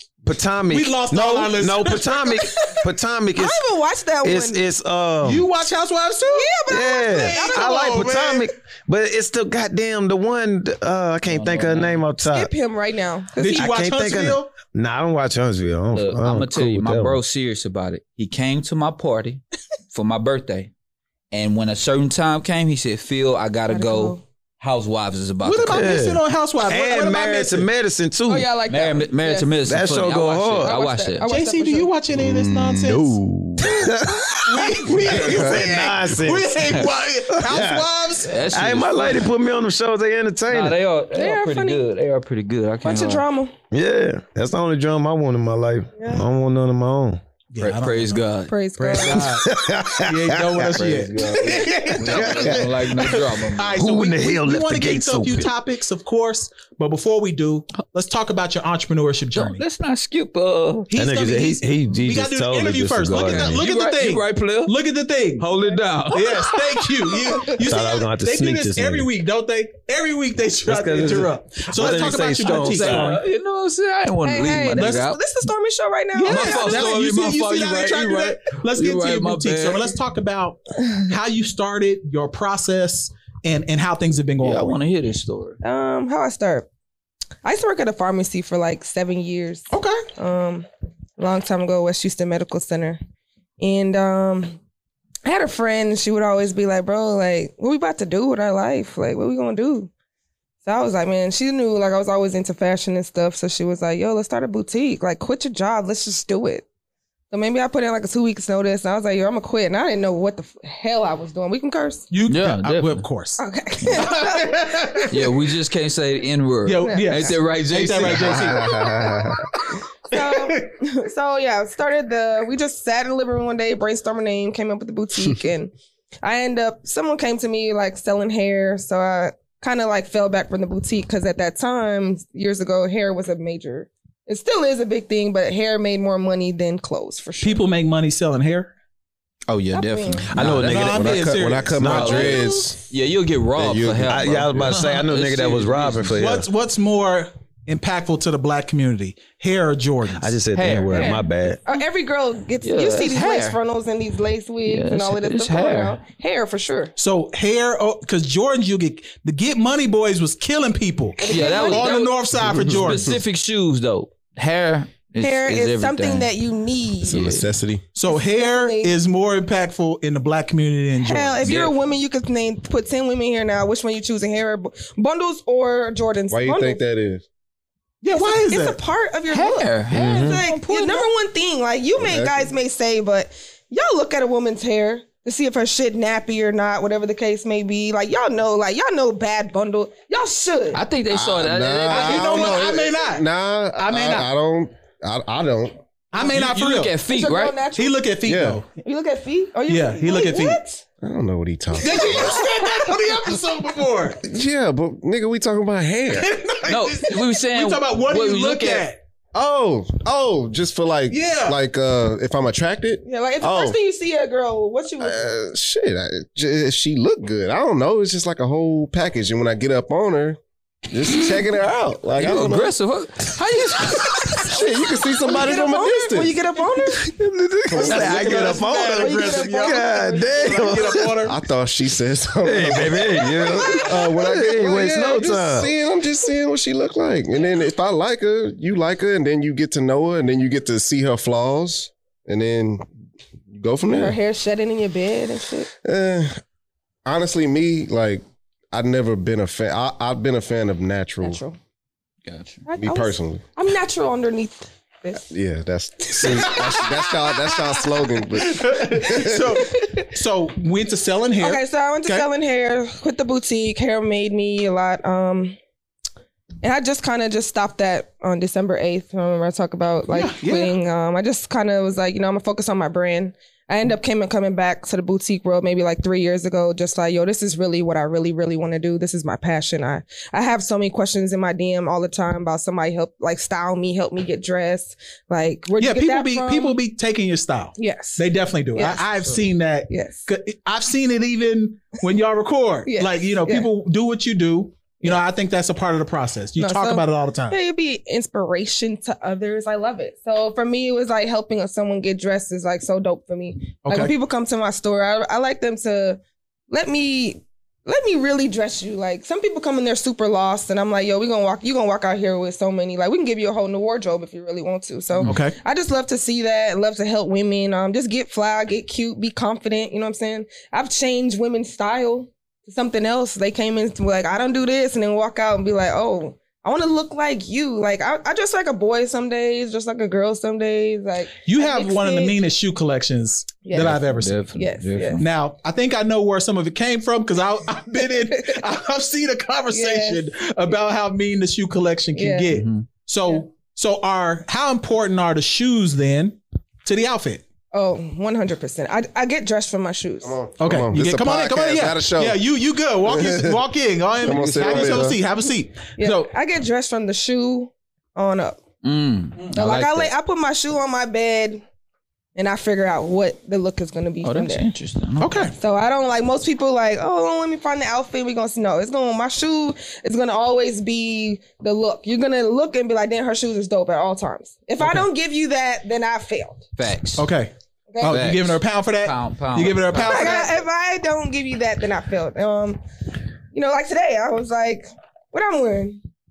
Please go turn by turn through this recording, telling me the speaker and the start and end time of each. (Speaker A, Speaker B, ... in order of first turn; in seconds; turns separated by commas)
Speaker A: 0.2-3.6, Speaker B: 0.7-2.4, Speaker C: 3.4-4.6, Speaker A: 4.2-5.5, Speaker B: 5.2-8.5, Speaker C: 6.3-7.8, Speaker A: 6.7-12.5, Speaker D: 11.3-12.0, Speaker C: 12.2-13.8, Speaker B: 13.4-14.5, Speaker A: 13.6-17.2, Speaker D: 15.9-20.7, Speaker D: 21.3-26.0, Speaker C: 23.7-24.2, Speaker B: 25.4-27.7, Speaker A: 25.7-28.5, Speaker C: 28.3-29.5, Speaker D: 28.7-31.2, Speaker A: 29.6-30.7, Speaker C: 30.6-31.9, Speaker B: 31.2-33.9, Speaker E: 32.1-33.1, Speaker A: 32.8-37.8, Speaker B: 34.4-38.5, Speaker E: 34.9-35.6, Speaker D: 38.2-39.3, Speaker A: 38.5-40.8, Speaker D: 40.5-43.2, Speaker C: 41.1-41.8, Speaker C: 42.8-43.5, Speaker A: 43.7-47.2, Speaker C: 46.0-46.2, Speaker B: 47.5-48.2, Speaker D: 47.6-48.5, Speaker C: 48.5-49.3, Speaker B: 48.8-49.5, Speaker A: 49.1-52.7, Speaker B: 50.0-59.6, Speaker D: 51.2-53.8, Speaker A: 53.8-55.5, Speaker D: 59.3-60.9, Speaker B: 60.9-65.5, Speaker A: 60.9-63.7, Speaker D: 63.1-64.7, Speaker D: 65.4-66.9, Speaker B: 66.1-73.2, Speaker A: 67.6-69.1, Speaker A: 70.7-73.2, Speaker D: 71.8-75.2, Speaker C: 74.2-76.9, Speaker B: 74.7-75.1, Speaker B: 76.2-84.8, Speaker D: 76.2-79.9, Speaker D: 84.4-85.6, Speaker C: 85.6-86.7, Speaker C: 87.4-90.7, Speaker B: 89.7-90.0, Speaker C: 91.2-93.0, Speaker C: 93.6-94.6, Speaker C: 95.2-99.9, Speaker C: 100.6-106.7, Speaker C: 107.3-112.1, Speaker B: 112.1-113.4, Speaker D: 112.3-113.0, Speaker C: 113.4-115.1, Speaker B: 113.9-115.1, Speaker D: 115.1-118.6, Speaker B: 116.7-118.8, Speaker C: 116.8-117.3, Speaker E: 118.0-119.4, Speaker C: 118.7-119.1, Speaker C: 120.0-137.6, Speaker B: 120.1-120.7, Speaker B: 137.4-138.7, Speaker D: 139.5-141.1, Speaker C: 139.7-140.3, Speaker A: 140.3-142.3, Speaker B: 140.6-142.3, Speaker E: 140.7-142.8, Speaker D: 141.8-146.2, Speaker C: 142.0-142.9, Speaker E: 143.6-144.7, Speaker A: 144.1-146.5, Speaker B: 146.1-150.3, Speaker A: 150.2-151.6, Speaker D: 150.5-151.2, Speaker C: 150.9-156.9, Speaker D: 152.6-153.6, Speaker D: 154.7-156.0, Speaker B: 157.0-163.1, Speaker C: 161.2-162.1, Speaker D: 161.3-166.3, Speaker C: 165.2-167.4, Speaker E: 167.0-167.8, Speaker D: 167.1-167.5, Speaker B: 167.9-171.7, Speaker C: 168.1-168.9, Speaker C: 171.0-176.8, Speaker D: 171.4-171.7, Speaker E: 176.3-177.2, Speaker B: 178.0-178.8, Speaker C: 178.1-190.8, Speaker D: 179.3-181.0, Speaker A: 179.9-180.4, Speaker B: 180.3-181.0, Speaker E: 182.0-182.5, Speaker D: 190.7-192.7, Speaker E: 191.1-195.8, Speaker B: 191.9-193.2, Speaker B: 193.8-194.3, Speaker B: 196.1-196.9, Speaker D: 196.2-197.6, Speaker C: 197.1-198.0, Speaker B: 197.7-198.7, Speaker E: 198.2-198.6, Speaker C: 198.8-200.8, Speaker B: 199.7-200.6, Speaker E: 201.0-202.4, Speaker B: 201.8-204.2, Speaker C: 201.8-202.9, Speaker E: 204.2-206.3, Speaker B: 206.1-209.0, Speaker D: 206.7-208.8, Speaker E: 209.3-213.8, Speaker B: 211.1-211.6, Speaker C: 213.0-215.2, Speaker E: 215.0-222.7, Speaker D: 222.2-224.5, Speaker E: 224.3-226.3, Speaker C: 225.2-227.1, Speaker A: 227.0-231.2, Speaker E: 227.7-228.4, Speaker B: 227.8-231.4, Speaker C: 228.0-231.1, Speaker E: 231.2-242.8, Speaker A: 232.4-235.7, Speaker C: 233.2-233.9, Speaker E: 243.5-244.2, Speaker C: 243.9-245.7, Speaker E: 245.8-246.3, Speaker E: 247.1-251.4, Speaker C: 251.2-251.6, Speaker D: 252.2-252.6, Speaker C: 252.7-255.3, Speaker E: 252.8-253.4, Speaker E: 255.3-259.5, Speaker A: 256.1-256.8, Speaker B: 256.2-257.8, Speaker B: 258.4-262.3, Speaker C: 259.1-260.1, Speaker C: 261.4-265.6, Speaker C: 266.6-286.8, Speaker B: 270.1-270.8, Speaker B: 285.8-297.6, Speaker C: 287.8-290.3, Speaker C: 292.9-293.7, Speaker C: 296.6-332.4, Speaker B: 303.8-304.1, Speaker B: 315.2-315.6, Speaker B: 331.4-334.4, Speaker C: 333.6-335.2, Speaker D: 334.0-335.2, Speaker B: 335.2-347.4, Speaker C: 338.3-338.6, Speaker C: 339.7-340.2, Speaker C: 342.1-342.5, Speaker D: 342.5-342.8, Speaker C: 347.7-350.4, Speaker E: 350.2-352.4, Speaker B: 350.6-356.3, Speaker E: 353.1-353.6, Speaker E: 354.2-355.2, Speaker A: 354.6-355.0, Speaker C: 356.0-358.6, Speaker D: 358.8-360.1, Speaker C: 359.5-361.6, Speaker C: 362.4-364.7, Speaker D: 364.2-365.5, Speaker B: 365.2-365.5, Speaker C: 365.6-376.6, Speaker B: 374.8-375.1, Speaker D: 376.8-377.3, Speaker B: 377.1-380.6, Speaker C: 377.9-378.2, Speaker D: 378.0-380.6, Speaker C: 380.0-382.8, Speaker C: 383.5-386.0